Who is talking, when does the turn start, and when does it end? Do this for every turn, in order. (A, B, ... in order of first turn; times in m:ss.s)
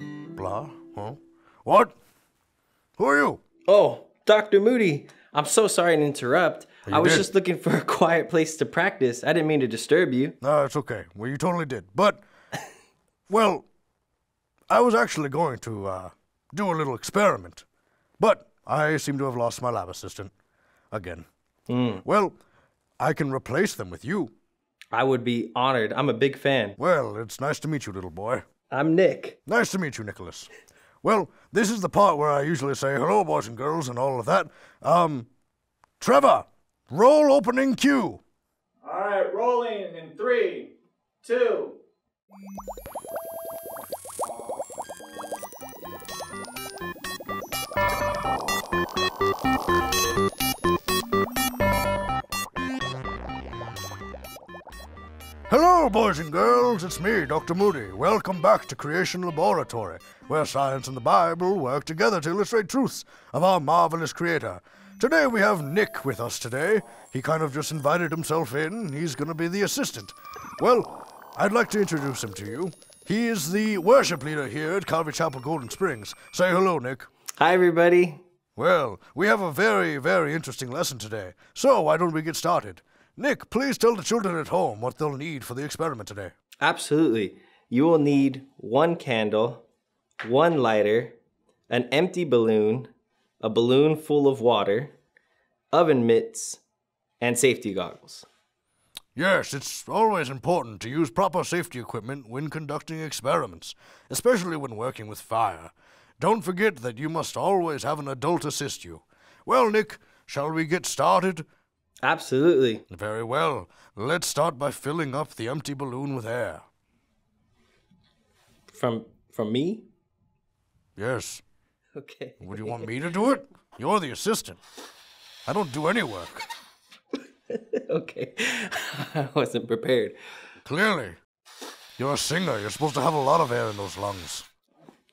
0:00.4-0:02.0 A
0:03.0-0:03.4 A
0:03.7-0:10.4 B
0:06.9-0:07.3 A
0:10.4-0:12.2 A
0:13.3-0:13.6 A
0:14.7-0:17.6 A
0:18.2-0:20.3 A
0:20.9-0:21.3 A
0:21.7-0:22.0 B
0:22.0-0:22.4 A
0:23.0-0:24.3 A
0:24.9-0:26.8 B
0:26.8-0:28.5 A
0:28.7-0:29.4 B
0:29.5-0:30.5 A
0:31.0-0:35.3 A
0:36.0-0:38.2 A
0:38.8-0:40.7 C
0:41.2-0:41.8 C
0:55.5-1:17.1 A
1:17.4-1:18.2 B
1:18.6-1:26.3 A
1:26.6-1:29.6 B
1:30.2-1:31.2 B
1:31.7-1:34.9 B
1:35.7-1:36.6 B
1:37.2-1:38.3 B
1:39.2-1:51.5 A
1:52.0-1:52.9 B
1:52.9-1:56.6 A
1:58.7-1:59.9 B
2:01.0-2:01.4 A
2:02.0-2:02.9 B
2:02.4-2:04.6 A
2:05.5-2:06.5 A
2:07.5-2:10.2 B
2:10.6-2:11.2 A
2:12.0-2:14.5 A